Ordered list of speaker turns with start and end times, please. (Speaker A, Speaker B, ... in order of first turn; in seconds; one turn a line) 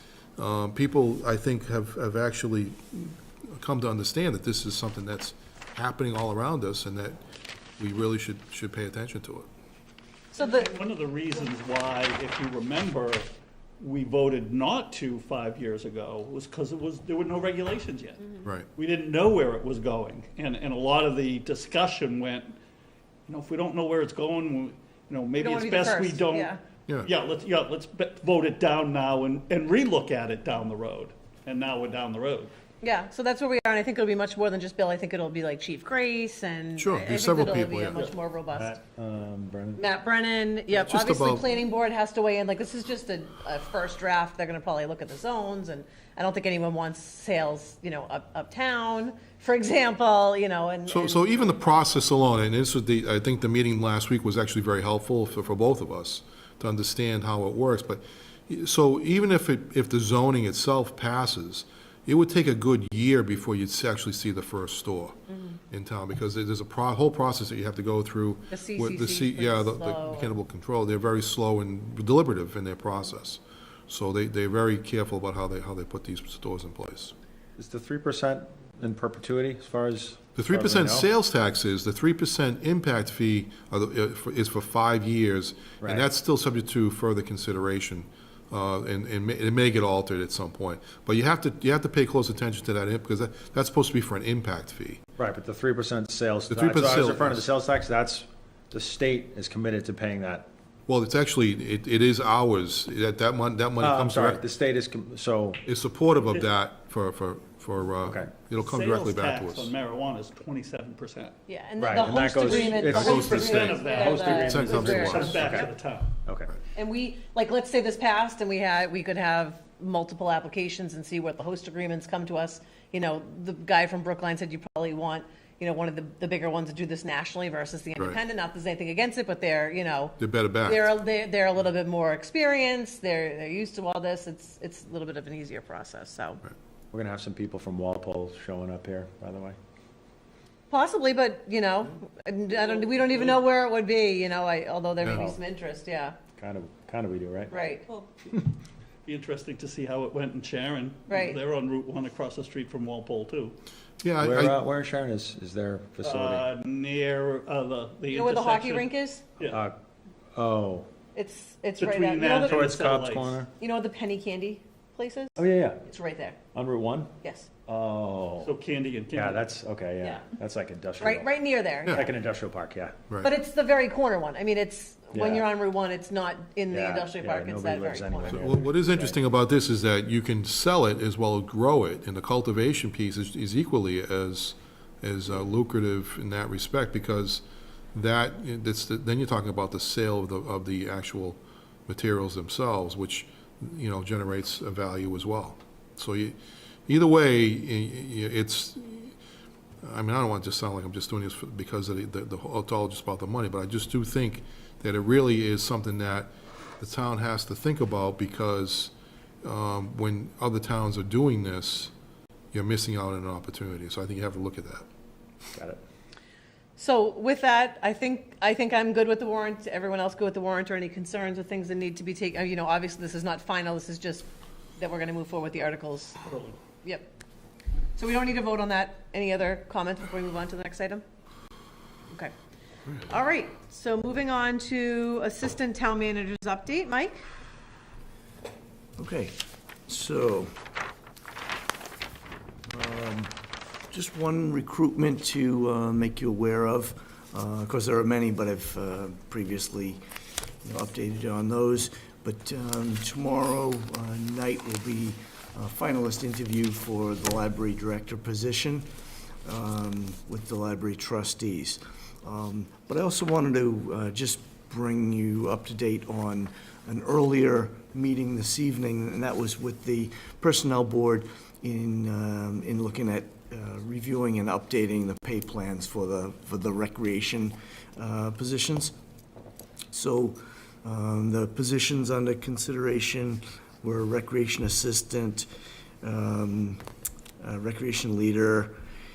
Speaker A: 0.4-7.2
Speaker A: 7.8-9.5
Speaker B: 10.3-10.7
Speaker C: 10.4-13.3
Speaker C: 13.8-22.6
Speaker C: 23.3-32.5
Speaker B: 25.4-26.6
Speaker B: 32.8-38.8
Speaker A: 36.8-38.0
Speaker D: 38.5-39.9
Speaker B: 39.8-51.6
Speaker A: 40.7-41.5
Speaker A: 50.9-65.2
Speaker B: 65.3-65.6
Speaker A: 65.7-77.2
Speaker B: 68.5-70.3
Speaker D: 77.6-81.1
Speaker A: 80.3-95.0
Speaker D: 85.8-86.1
Speaker D: 95.2-100.5
Speaker A: 96.5-97.5
Speaker A: 100.9-104.4
Speaker D: 103.8-105.6
Speaker A: 105.7-109.7
Speaker D: 108.0-108.3
Speaker C: 108.6-111.3
Speaker B: 111.5-115.7
Speaker D: 111.8-115.7
Speaker C: 112.2-116.1
Speaker A: 112.9-115.4
Speaker D: 116.2-116.6
Speaker B: 116.8-136.4
Speaker A: 130.2-130.9
Speaker D: 136.9-139.6
Speaker B: 140.7-146.2
Speaker C: 142.5-143.4
Speaker A: 145.0-145.3
Speaker D: 146.4-147.6
Speaker B: 147.5-147.9
Speaker C: 149.1-153.6
Speaker B: 151.1-151.4
Speaker A: 154.0-154.6
Speaker D: 154.2-156.5
Speaker C: 156.0-159.6
Speaker B: 158.1-159.2
Speaker D: 159.5-159.8
Speaker D: 160.3-160.9
Speaker B: 161.1-162.7
Speaker C: 161.8-163.4
Speaker D: 162.4-163.5
Speaker B: 163.6-166.4
Speaker D: 165.4-165.8
Speaker D: 166.5-167.1
Speaker B: 167.2-167.5
Speaker D: 167.7-168.5
Speaker C: 168.4-169.4
Speaker D: 169.1-171.3
Speaker B: 171.0-172.0
Speaker D: 171.9-173.1
Speaker B: 173.2-178.6
Speaker D: 175.2-175.5
Speaker D: 176.7-179.2
Speaker A: 178.2-196.4
Speaker A: 196.9-199.2
Speaker A: 199.8-211.9
Speaker A: 212.5-214.8
Speaker B: 216.8-226.2
Speaker C: 226.2-226.6
Speaker B: 226.8-227.1
Speaker B: 228.0-231.0
Speaker B: 233.1-237.2
Speaker E: 239.0-240.5
Speaker E: 242.7-243.3
Speaker E: 243.9-250.0
Speaker E: 250.6-258.9
Speaker E: 259.4-278.9
Speaker E: 279.9-285.5
Speaker E: 286.0-286.8
Speaker E: 287.4-288.8